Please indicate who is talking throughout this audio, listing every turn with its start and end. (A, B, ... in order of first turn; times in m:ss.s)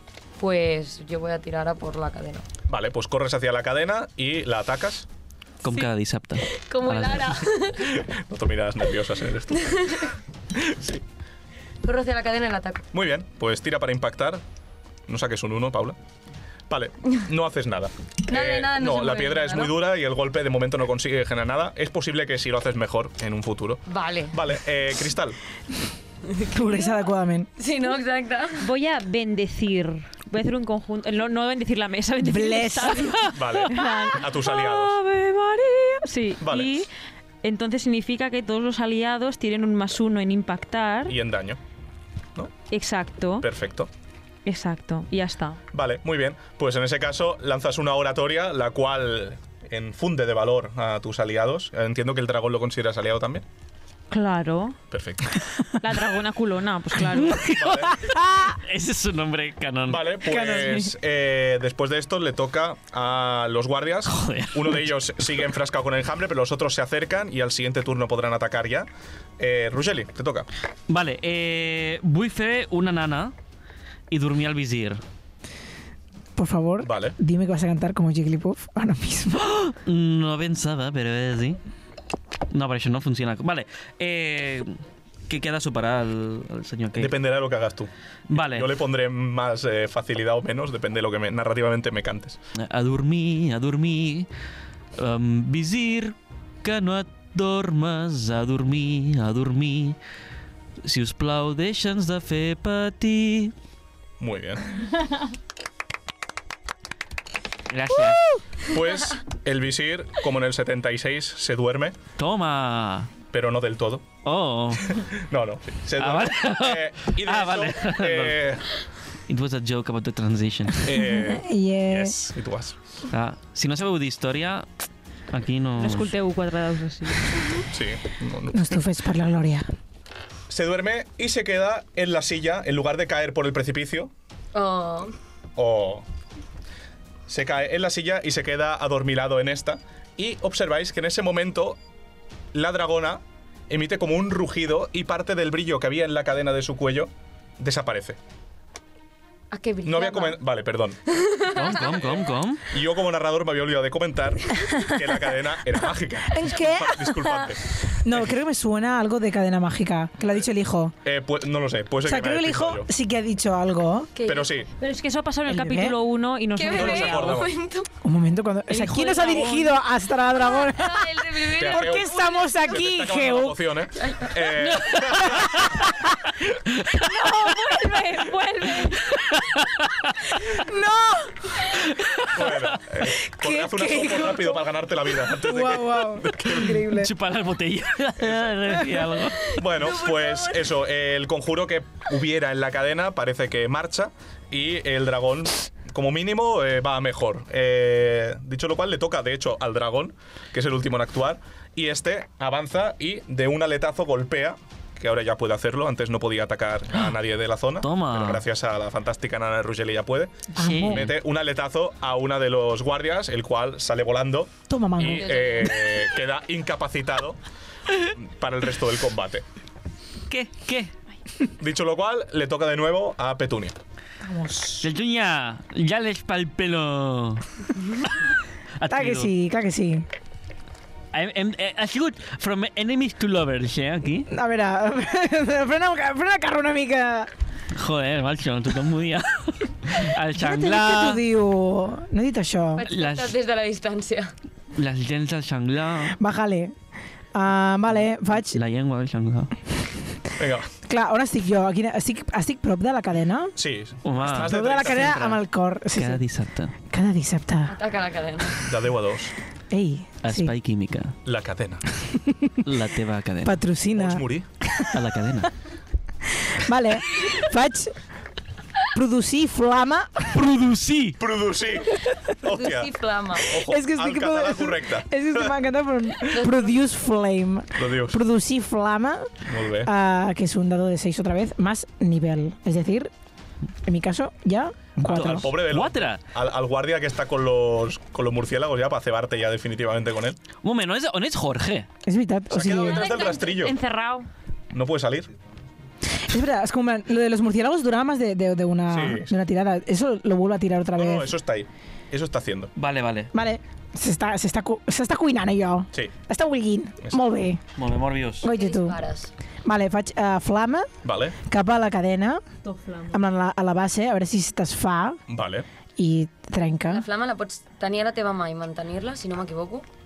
0:00.4-0:02.4 A
0:02.7-0:05.1 B
0:05.6-0:07.4 C
0:06.4-0:08.0 A
0:07.8-0:11.0 B
0:09.6-0:10.1 A
0:11.8-0:12.8 A
0:12.9-0:14.4 B
0:15.1-0:16.0 B
0:16.7-0:25.4 B
0:18.3-0:19.8 A
0:23.9-0:24.3 A
0:26.3-0:26.9 A
0:26.5-0:27.5 D
0:27.6-0:28.7 A
0:28.6-0:36.9 E
0:32.2-0:33.2 D
0:33.3-0:35.0 B
0:36.4-0:36.8 B
0:37.4-0:41.2 E
0:41.1-0:41.6 B
0:42.7-0:43.4 E
0:43.4-0:43.9 B
0:44.4-0:45.6 E
0:45.7-0:53.4 B
0:54.1-0:54.8 E
0:54.9-0:55.4 B
0:55.8-0:57.5 E
0:57.1-1:00.2 C
0:57.6-0:58.0 B
0:58.0-0:58.6 D
0:59.9-1:08.9 B
1:00.2-1:00.9 D
1:04.0-1:04.8 C
1:09.4-1:10.5 B
1:10.9-1:13.3 C
1:14.1-1:15.0 C
1:16.4-1:19.7 D
1:16.8-1:17.1 B
1:19.6-1:21.6 C
1:22.5-1:27.2 C
1:27.0-1:32.4 B
1:28.3-1:28.7 C
1:32.6-1:34.3 C
1:35.0-1:40.0 C
1:40.8-1:43.5 C
1:44.2-1:44.8 B
1:47.7-1:48.4 C
1:48.6-1:52.0 B
1:52.2-1:53.1 C
1:53.3-1:54.1 B
1:54.2-1:55.0 C
1:54.9-1:58.7 B
1:56.0-1:58.5 C
1:59.3-2:00.8 C
2:00.8-2:02.8 B
2:01.0-2:02.2 D
2:03.1-2:04.6 C
2:05.3-2:06.1 C
2:05.8-2:07.4 E
2:07.6-2:08.8 B
2:08.5-2:09.7 D
2:10.5-2:14.1 B
2:14.5-2:15.1 A
2:15.6-2:16.0 B
2:17.3-2:21.8 B
2:22.5-2:28.2 B
2:29.5-2:30.4 A
2:29.8-2:31.0 B
2:31.1-2:32.1 A
2:31.5-2:32.6 C
2:32.0-2:38.2 B
2:36.3-2:40.9 D
2:41.0-2:42.9 B
2:42.0-2:44.1 D
2:44.1-2:44.5 A
2:44.2-2:44.7 B
2:44.8-2:47.4 E
2:45.5-2:46.0 D
2:46.5-2:47.9 A
2:46.7-2:47.5 B
2:48.0-2:53.6 D
2:48.7-2:49.8 E
2:50.4-2:52.5 A
2:51.6-2:55.6 B
2:54.0-2:54.4 A
2:54.5-2:55.8 C
2:56.7-2:57.4 C
2:57.0-2:59.0 E
2:57.4-2:57.9 D
2:59.0-3:00.2 C
3:00.4-3:01.7 D
3:01.7-3:02.7 C
3:02.3-3:06.8 B
3:03.1-3:04.6 D
3:05.2-3:07.1 D
3:06.5-3:09.5 C
3:08.2-3:08.6 B
3:08.7-3:09.1 D
3:09.5-3:37.4 B
3:09.6-3:10.7 A
3:27.8-3:28.4 C
3:30.6-3:31.1 D
3:30.6-3:31.1 C
3:34.7-3:35.3 D
3:35.0-3:35.9 A
3:38.0-3:39.4 B
3:40.3-3:40.9 C
3:41.6-3:43.8 B
3:44.2-3:44.9 D
3:44.8-3:47.4 C
3:48.8-3:49.3 C
3:48.9-3:50.0 D
3:51.1-3:54.3 C
3:54.3-3:57.3 D
3:57.7-4:01.2 C
4:00.4-4:02.8 D
4:02.7-4:04.3 A
4:02.9-4:03.3 C
4:04.8-4:06.2 C
4:06.1-4:06.7 D
4:07.3-4:08.6 D
4:08.3-4:09.5 C
4:10.4-4:10.7 B
4:10.9-4:13.5 D
4:13.6-4:15.1 B
4:14.0-4:15.4 C
4:14.2-4:16.2 D
4:16.0-4:16.7 C
4:16.9-4:17.7 D
4:17.7-4:18.6 A
4:18.6-4:19.3 B
4:19.7-4:20.5 D
4:20.2-4:21.2 C
4:21.2-4:21.8 B
4:22.0-4:22.7 D
4:22.6-4:23.6 C
4:23.4-4:25.0 D
4:23.9-4:24.5 B
4:24.9-4:25.5 C
4:26.4-4:27.9 D
4:28.9-4:30.3 D
4:30.3-4:31.2 C
4:31.2-4:35.5 B
4:31.9-4:32.4 D
4:32.5-4:33.6 A
4:33.5-4:43.1 D
4:36.3-4:36.8 A
4:37.8-4:38.2 B
4:39.5-4:39.9 B
4:43.8-4:45.6 D
4:45.0-4:46.2 C
4:45.1-4:50.4 B
4:50.6-4:51.9 C
4:52.0-4:53.1 D
4:52.5-4:53.8 B
4:52.8-4:54.3 E
4:53.0-4:53.4 A
4:54.7-4:55.3 B
4:56.1-5:01.3 D
4:58.9-4:59.3 B
5:01.0-5:02.7 B
5:02.8-5:03.3 C
5:03.3-5:07.6 D
5:07.8-5:08.4 C
5:08.4-5:09.0 D
5:08.4-5:09.3 A
5:09.6-5:10.9 D
5:11.0-5:11.4 B
5:11.4-5:12.4 D
5:12.6-5:13.1 E
5:13.1-5:15.2 D
5:15.3-5:15.7 B
5:16.0-5:17.0 D
5:16.9-5:19.8 A